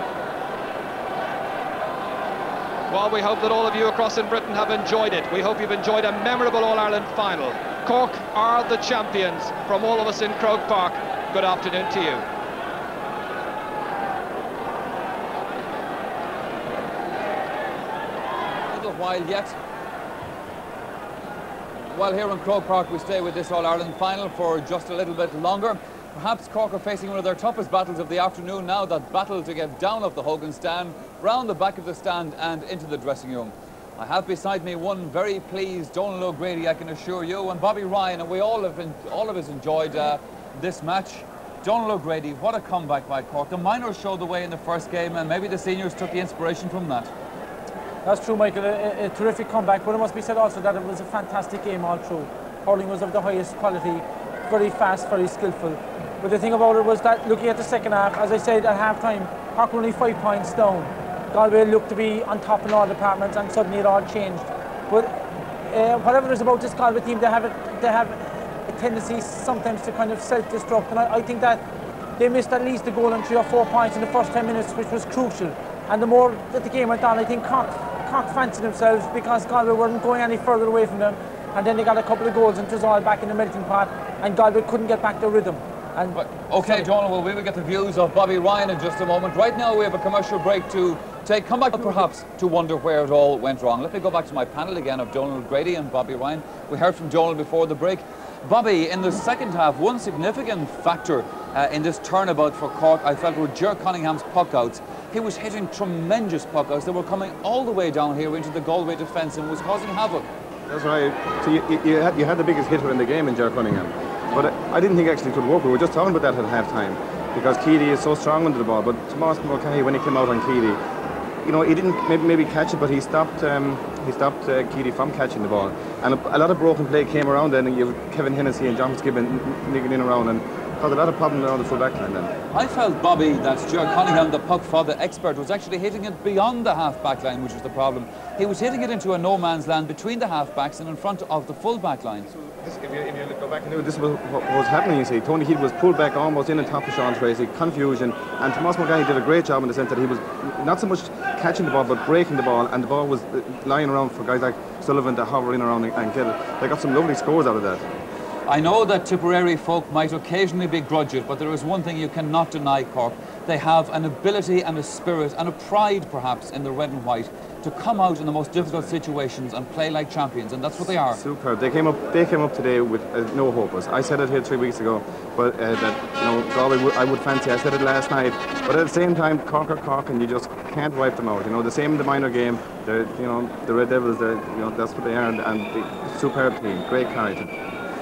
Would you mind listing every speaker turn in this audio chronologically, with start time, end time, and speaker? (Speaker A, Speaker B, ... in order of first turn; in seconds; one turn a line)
Speaker A: 2.9-12.2
Speaker B: 18.7-19.6
Speaker B: 21.9-47.1
Speaker C: 48.0-65.1
Speaker C: 65.7-71.6
Speaker C: 72.2-86.9
Speaker B: 86.1-110.3
Speaker D: 110.7-120.8
Speaker D: 121.4-132.3
Speaker B: 132.5-142.3
Speaker D: 142.6-157.9
Speaker B: 158.5-171.2
Speaker D: 168.6-168.9
Speaker D: 171.0-187.5